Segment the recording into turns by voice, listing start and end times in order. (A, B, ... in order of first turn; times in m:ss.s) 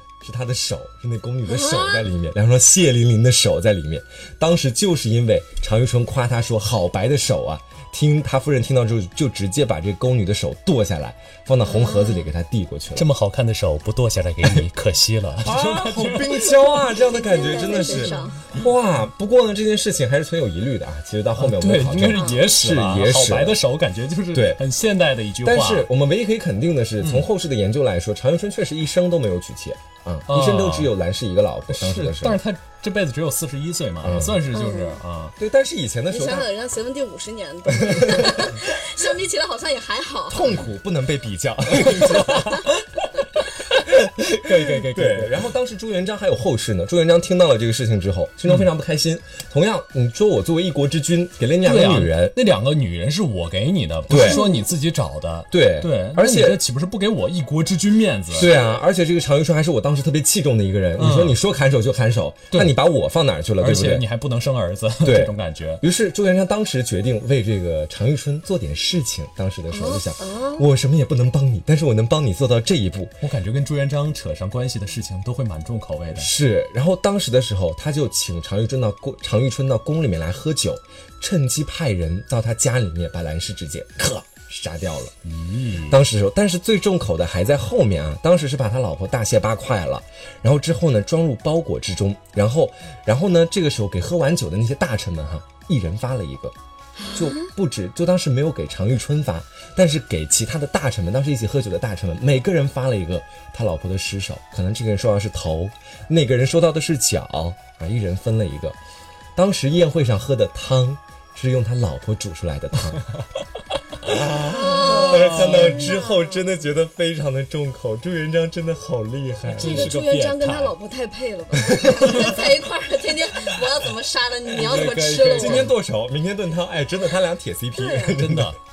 0:00.2-0:13.1 A
0:01.5-0:02.0 B
0:11.6-0:12.3 B
0:12.9-0:17.0 C
0:15.4-0:23.6 A
0:17.0-0:18.4 B
0:17.8-0:18.6 C
0:21.4-0:25.9 C
0:22.1-0:22.4 B
0:24.3-0:24.6 A
0:25.4-0:32.4 A
0:27.0-0:27.3 C
0:30.3-0:30.9 C
0:31.7-0:35.4 C
0:34.0-0:34.4 A
0:34.5-0:35.0 B
0:35.4-0:36.5 A
0:36.1-0:40.6 B
0:37.7-0:38.6 A
0:40.3-0:42.7 A
0:41.8-0:42.8 C
0:43.7-0:52.4 A
0:44.2-0:45.4 C
0:51.6-0:58.5 C
0:54.1-0:54.4 A
0:54.1-0:54.6 B
0:55.5-0:56.6 A
0:58.3-1:04.0 A
0:58.4-0:58.8 B
1:01.0-1:01.4 C
1:02.5-1:02.8 C
1:03.6-1:05.8 C
1:05.0-1:13.2 A
1:09.7-1:10.6 B
1:13.2-1:16.3 C
1:16.1-1:25.1 A
1:25.2-1:26.0 C
1:25.9-1:36.5 A
1:37.0-1:37.5 B
1:37.1-1:48.8 A
1:49.4-1:53.1 A
1:54.0-1:59.9 A
1:54.3-1:56.4 B
1:54.8-1:55.9 C
1:59.5-2:00.7 C
1:59.5-2:05.7 B
2:01.6-2:02.5 A
2:04.5-2:05.7 C
2:05.4-2:08.5 A
2:07.7-2:08.2 B
2:08.2-2:08.6 C